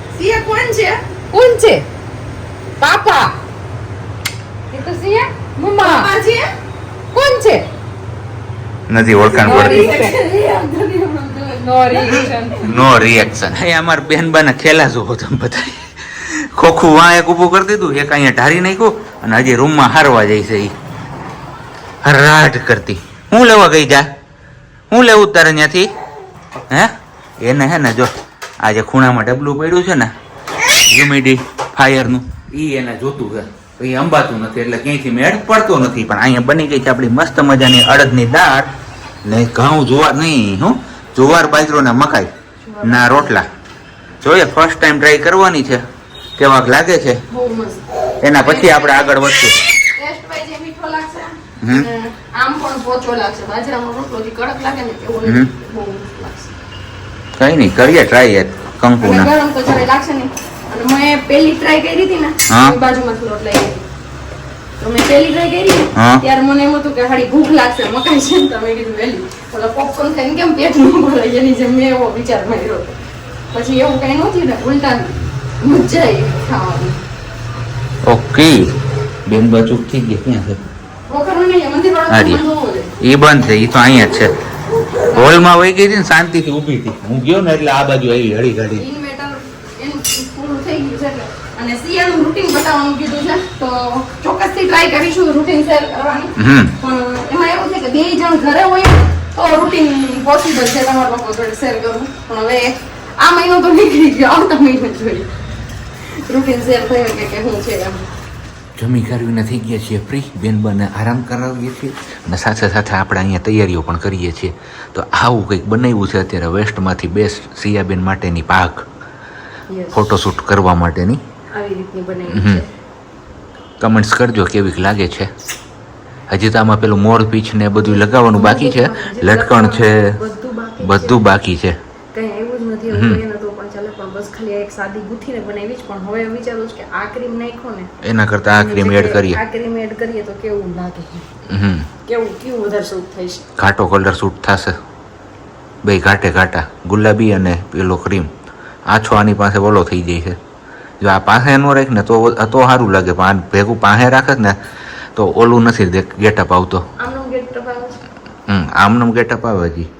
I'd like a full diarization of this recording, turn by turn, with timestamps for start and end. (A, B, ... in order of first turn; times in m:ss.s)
0:00.1-0:01.0 A
0:01.3-0:01.8 B
0:02.8-0:03.3 B
0:04.7-0:06.1 B
0:05.6-0:06.5 A
0:07.1-0:07.7 B
0:08.9-0:09.9 C
0:09.2-0:13.0 A
0:09.4-0:10.2 B
0:11.6-0:12.6 B
0:12.6-0:20.7 C
0:22.0-0:24.1 C
0:24.9-0:25.9 C
0:26.7-0:30.1 C
0:30.8-0:38.7 C
0:39.2-0:42.3 C
0:42.6-0:43.4 A
0:42.8-0:43.5 C
0:44.2-0:45.8 C
0:46.4-0:47.2 C
0:47.3-0:49.2 A
0:48.2-0:49.6 C
0:49.8-0:56.5 A
0:51.6-0:51.9 C
0:57.4-0:59.3 C
0:59.0-1:03.8 A
1:02.5-1:02.8 C
1:04.8-1:12.9 A
1:05.9-1:06.2 C
1:13.5-1:17.0 A
1:18.0-1:18.7 C
1:19.3-1:20.6 C
1:21.1-1:22.9 A
1:22.1-1:22.4 C
1:23.0-1:24.4 C
1:25.0-1:25.3 A
1:25.0-1:28.8 C
1:28.8-1:45.3 A
1:36.4-1:36.7 C
1:46.0-1:48.0 A
1:48.8-1:58.8 C
1:59.7-2:00.1 A
1:59.9-2:01.2 C
2:01.5-2:02.7 A
2:02.3-2:02.6 C
2:03.8-2:05.3 C
2:06.3-2:10.2 C
2:07.7-2:11.2 A
2:10.8-2:11.8 C
2:12.1-2:17.9 A
2:12.9-2:13.2 C
2:18.0-2:19.4 C
2:18.5-2:21.2 A
2:21.5-2:21.9 C
2:22.0-2:23.4 A
2:23.6-2:24.8 C
2:25.8-2:28.3 C
2:28.9-2:30.4 C
2:31.0-2:34.6 C
2:35.1-2:36.8 C
2:37.0-2:38.0 A
2:38.5-2:39.9 C